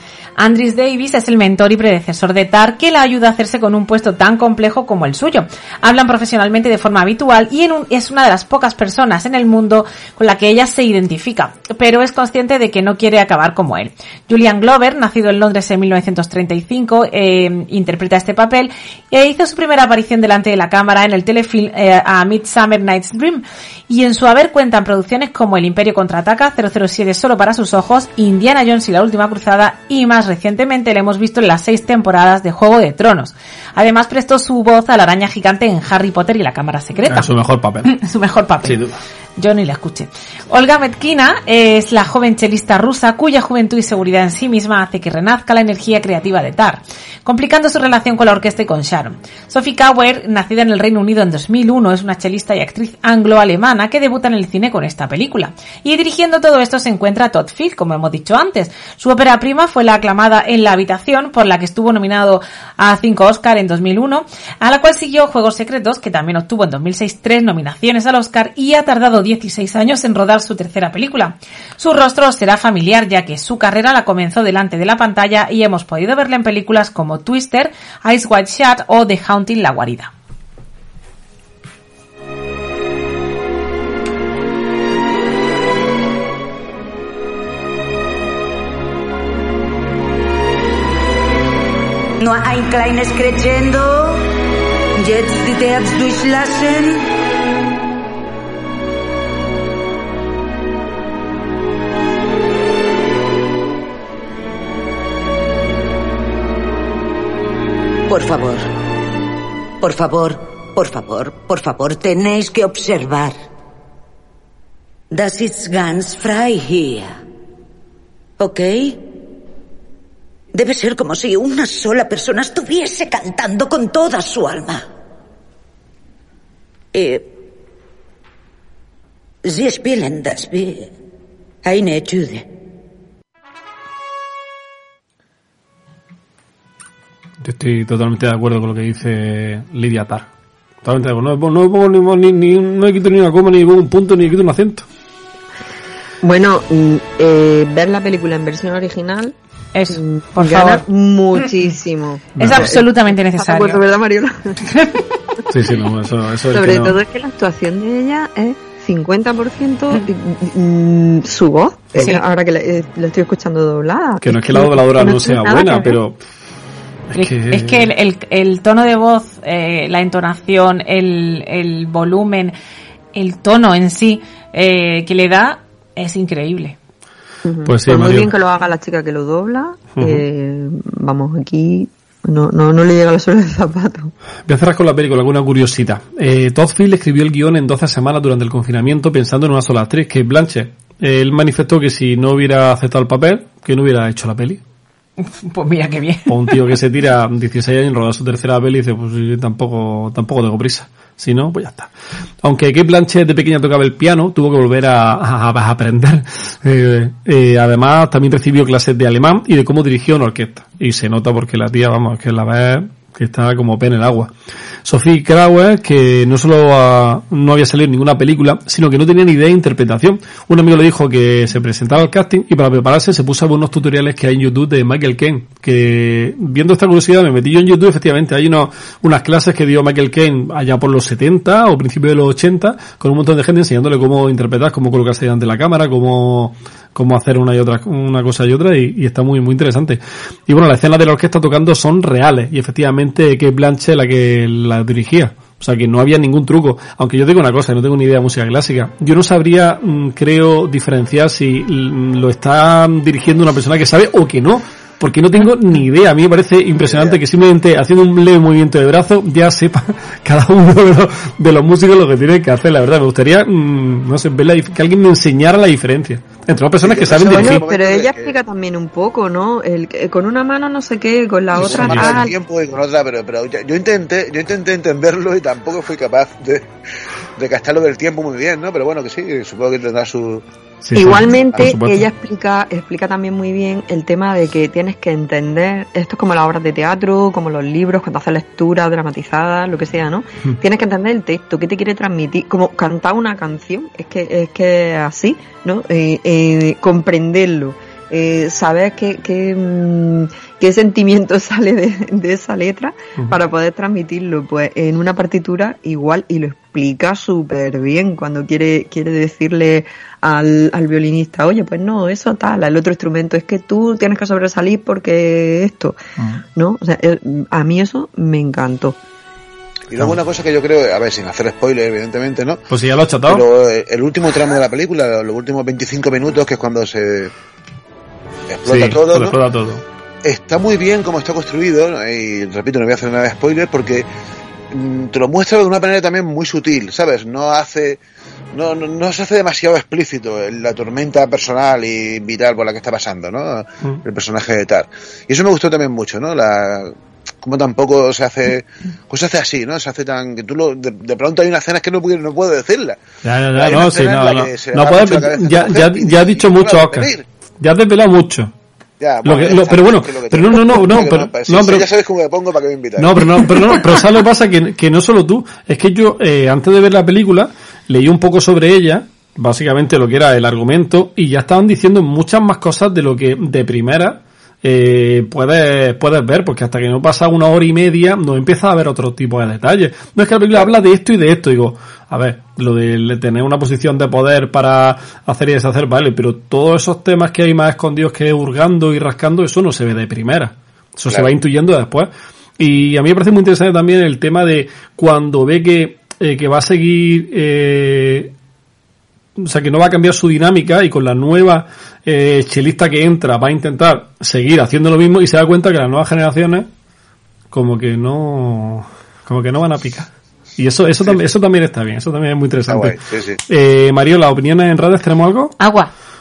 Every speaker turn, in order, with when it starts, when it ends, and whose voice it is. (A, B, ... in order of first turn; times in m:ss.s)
0:00.4-0:37.3 A
0:37.1-0:37.9 B
0:37.8-0:38.8 A
0:38.6-0:39.0 B
0:39.4-1:20.1 A
1:32.2-1:34.2 C
1:35.0-1:37.0 C
1:48.1-1:48.7 C
1:49.8-1:53.4 C
1:55.1-1:57.2 C
1:58.4-1:59.0 C
2:00.5-2:04.8 C
2:06.9-2:07.3 C
2:09.4-2:10.9 C
2:11.6-2:12.5 C
2:17.4-2:20.3 B
2:20.8-2:24.8 B
2:26.2-2:29.3 D
2:29.7-2:30.8 A
2:29.9-2:34.6 D
2:32.4-2:32.7 B
2:32.4-2:33.8 A
2:35.5-2:37.0 B
2:36.5-2:46.0 D
2:44.2-2:46.2 B
2:47.1-2:47.9 B
2:47.1-2:52.5 A
2:53.1-2:56.8 A
2:57.4-3:04.1 D
2:57.6-2:58.3 B
3:00.0-3:00.2 B
3:04.4-3:14.6 B
3:15.3-3:16.3 A
3:16.3-3:21.9 B
3:22.4-3:34.3 B
3:34.8-4:27.6 B
4:16.8-4:17.2 E
4:26.8-4:28.3 E
4:27.2-4:32.3 D
4:31.6-4:32.2 B
4:31.6-4:36.7 E
4:37.4-4:40.4 E
4:40.8-4:42.0 B
4:40.9-5:16.0 D
5:16.6-5:19.0 D
5:19.9-5:22.6 E
5:22.7-5:23.4 B
5:23.3-5:27.3 E
5:28.5-5:29.4 E
5:28.6-5:29.8 B
5:30.2-5:34.0 E
5:34.7-5:38.0 E
5:38.5-5:53.0 E
5:53.2-5:57.1 B
5:53.6-5:57.2 E
5:57.6-5:58.5 B
5:59.0-6:03.8 E
5:59.2-6:01.8 B
6:03.0-6:38.3 B
6:39.4-6:46.7 B
6:47.5-6:53.0 B
6:52.7-6:53.4 E
6:53.5-6:55.5 B
6:55.6-6:55.9 A